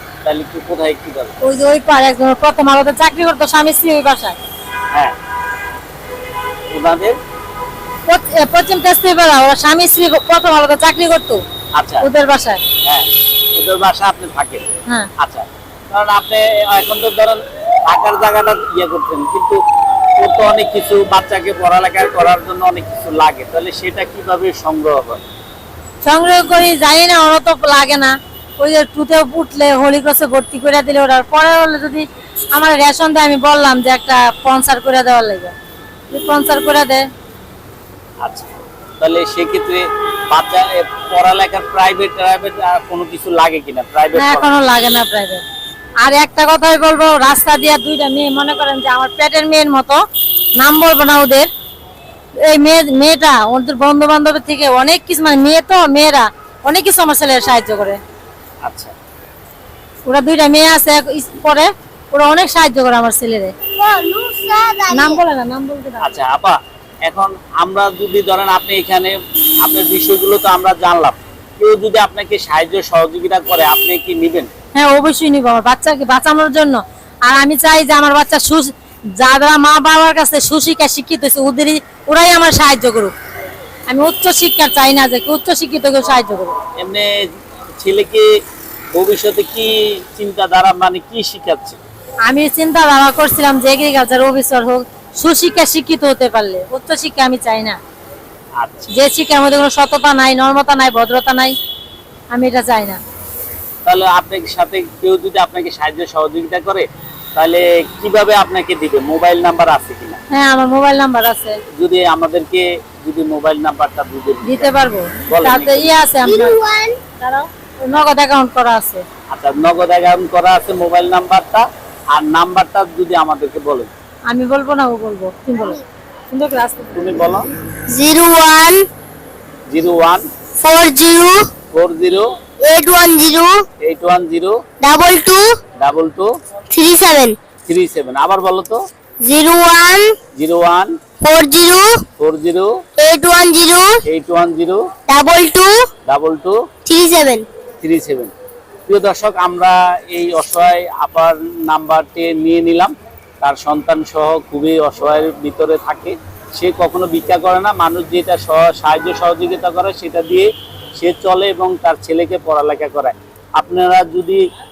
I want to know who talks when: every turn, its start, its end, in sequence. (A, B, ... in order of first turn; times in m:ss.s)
0:00.2-0:01.3 A
0:01.4-0:04.4 B
0:06.7-0:07.2 A
0:08.1-0:11.4 B
0:11.8-0:12.1 A
0:12.0-0:12.6 B
0:12.8-0:14.6 A
0:15.2-0:19.6 A
0:20.2-0:25.2 A
0:26.0-0:35.5 B
0:36.1-0:37.1 B
0:38.2-0:44.5 A
0:44.1-0:45.4 B
0:46.0-0:50.0 B
0:50.6-0:51.5 B
0:52.5-0:58.0 B
0:58.6-0:58.9 A
1:00.1-1:03.5 B
1:03.8-1:05.2 C
1:04.9-1:06.2 B
1:06.0-1:14.5 A
1:14.7-1:23.1 B
1:23.9-1:26.6 B
1:26.8-1:27.1 A
1:27.8-1:28.3 A
1:28.9-1:31.8 A
1:32.3-1:37.8 B
1:38.6-1:38.9 A
1:38.9-1:41.6 B
1:42.3-1:43.0 B
1:43.8-1:50.2 A
1:50.3-1:51.6 B
1:51.8-1:54.7 A
1:54.4-1:56.6 B
1:55.3-1:56.0 A
1:56.2-1:57.0 C
1:57.2-1:59.0 B
1:59.3-2:03.9 A
2:04.3-2:07.2 B
2:07.0-2:07.5 A
2:07.9-2:08.8 C
2:09.7-2:10.2 A
2:10.6-2:11.4 C
2:11.7-2:12.3 A
2:12.6-2:13.6 C
2:13.8-2:14.6 A
2:14.8-2:15.4 C
2:15.8-2:16.3 A
2:16.7-2:17.4 C
2:17.7-2:18.8 A
2:19.2-2:20.2 C
2:20.4-2:21.0 A
2:21.2-2:22.0 C
2:22.2-2:22.7 A
2:23.0-2:24.0 C
2:24.0-2:24.8 A
2:25.1-2:25.7 C
2:26.1-2:26.6 A
2:26.9-2:27.5 C
2:27.8-2:28.3 A
2:28.9-2:44.4 A